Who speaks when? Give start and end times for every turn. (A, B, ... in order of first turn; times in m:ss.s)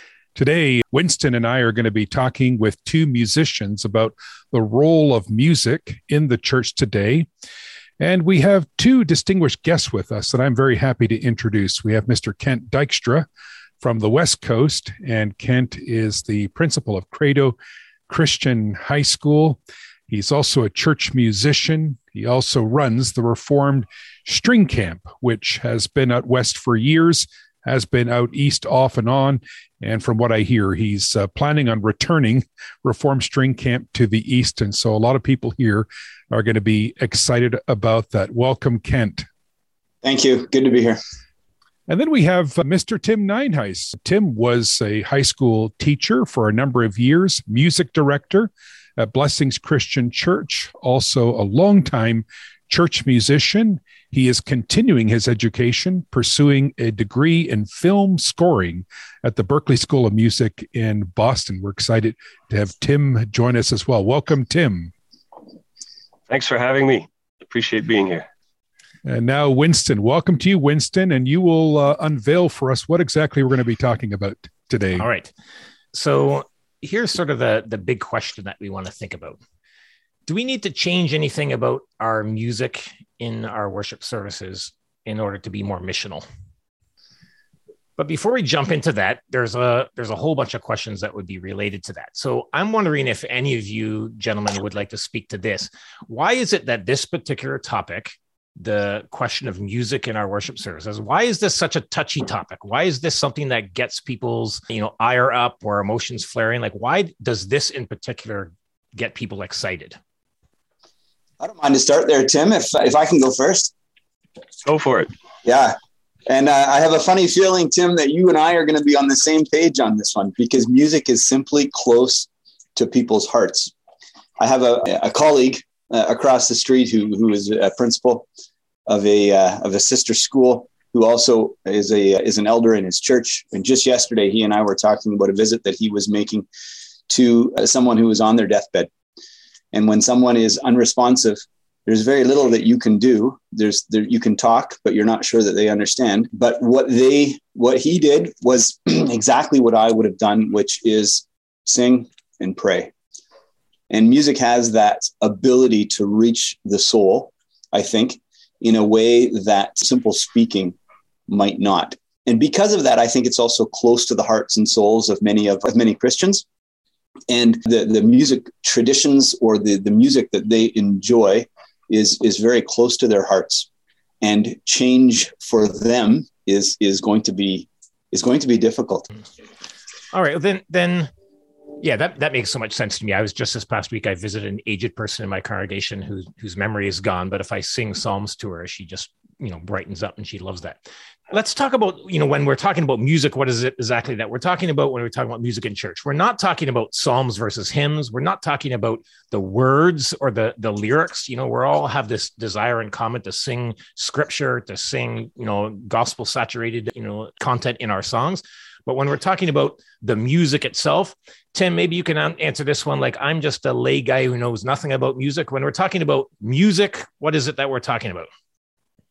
0:00.3-0:07.3 A
0:08.0-0:13.3 A
0:13.8-0:17.6 A
0:18.1-0:39.3 A
0:40.0-0:41.0 B
0:41.9-1:04.9 A
1:06.3-1:08.3 C
1:09.0-1:15.1 A
1:15.0-1:15.3 D
1:15.9-1:19.4 D
1:20.3-1:26.3 D
1:28.0-1:50.0 D
1:51.4-1:53.7 B
1:54.6-1:55.1 C
1:55.4-1:55.8 B
1:56.3-2:03.7 B
2:04.4-2:08.2 B
2:08.9-2:16.4 B
2:17.1-2:18.9 B
2:19.7-2:32.9 B
2:33.9-2:40.8 B
2:41.3-2:46.4 B
2:47.3-2:53.7 B
2:54.2-2:59.1 B
3:00.1-3:01.1 D
3:01.8-3:38.3 D